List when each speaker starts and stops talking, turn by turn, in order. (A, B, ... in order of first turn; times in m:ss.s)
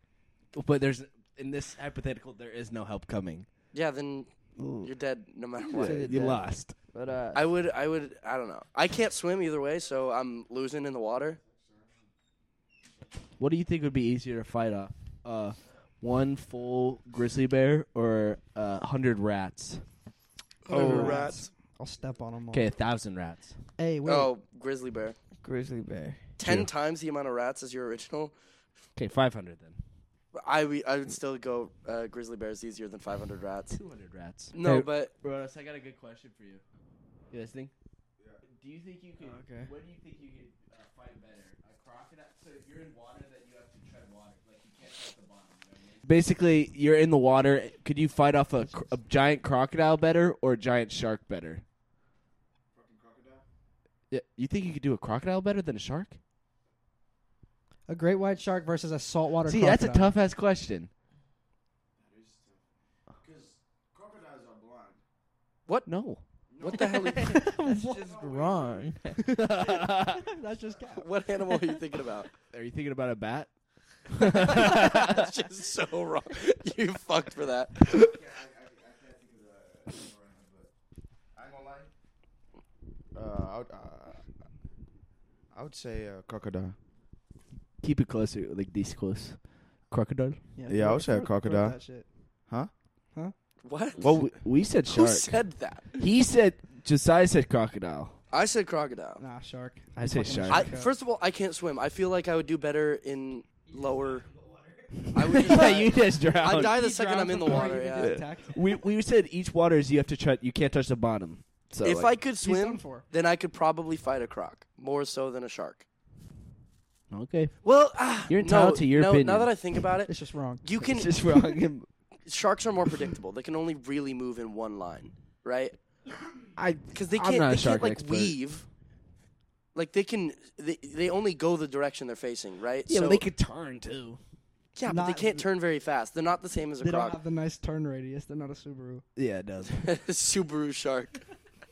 0:00.5-0:03.5 A
0:03.7-0:06.2 B
0:05.7-0:06.8 A
0:05.7-0:07.4 C
0:07.3-0:11.4 B
0:11.4-0:12.0 D
0:13.4-0:19.8 A
0:20.6-0:21.5 B
0:20.7-0:22.7 E
0:22.5-0:23.6 A
0:23.8-0:24.3 E
0:24.0-0:25.2 B
0:25.4-0:26.2 C
0:26.4-0:28.4 B
0:29.0-0:29.8 A
0:30.3-0:33.8 B
0:33.7-0:36.6 A
0:34.5-0:35.1 B
0:37.3-0:37.7 A
0:38.4-0:51.6 A
0:39.2-0:39.7 C
0:52.7-0:53.4 D
0:54.1-0:56.2 A
0:57.9-1:00.1 E
0:59.4-1:00.9 A
1:02.0-1:05.0 D
1:05.9-1:06.2 A
1:06.5-1:09.0 D
1:06.6-1:07.4 B
1:07.1-1:09.2 C
1:09.2-1:10.2 A
1:10.0-1:11.1 E
1:11.0-1:12.3 B
1:12.5-1:15.3 A
1:14.4-1:17.8 B
1:17.9-1:20.7 D
1:21.3-1:21.9 D
1:23.1-1:24.3 D
1:25.5-1:26.8 D
1:27.8-1:30.4 A
1:30.6-1:32.1 E
1:30.7-1:31.8 D
1:33.6-1:34.3 B
1:34.0-1:38.2 A
1:34.0-1:34.3 D
1:34.8-1:35.9 B
1:38.3-1:39.2 B
1:39.2-1:40.9 E
1:40.0-1:40.7 A
1:40.5-1:44.2 B
1:43.7-1:46.3 C
1:45.0-1:46.8 A
1:45.1-1:48.2 B
1:46.4-1:48.6 E
1:47.5-1:52.2 A
1:51.8-1:55.9 B
1:52.4-1:53.1 E
1:57.1-1:59.6 A
1:57.6-2:01.3 B
2:00.1-2:00.7 E
2:00.9-2:01.9 A
2:02.2-2:05.8 B
2:06.6-2:08.4 A
2:06.9-2:08.7 B
2:09.8-2:13.3 B
2:12.9-2:14.2 A
2:14.8-2:17.2 B
2:14.9-2:15.5 E
2:16.8-2:19.0 E
2:19.2-2:19.9 A
2:19.8-2:21.2 B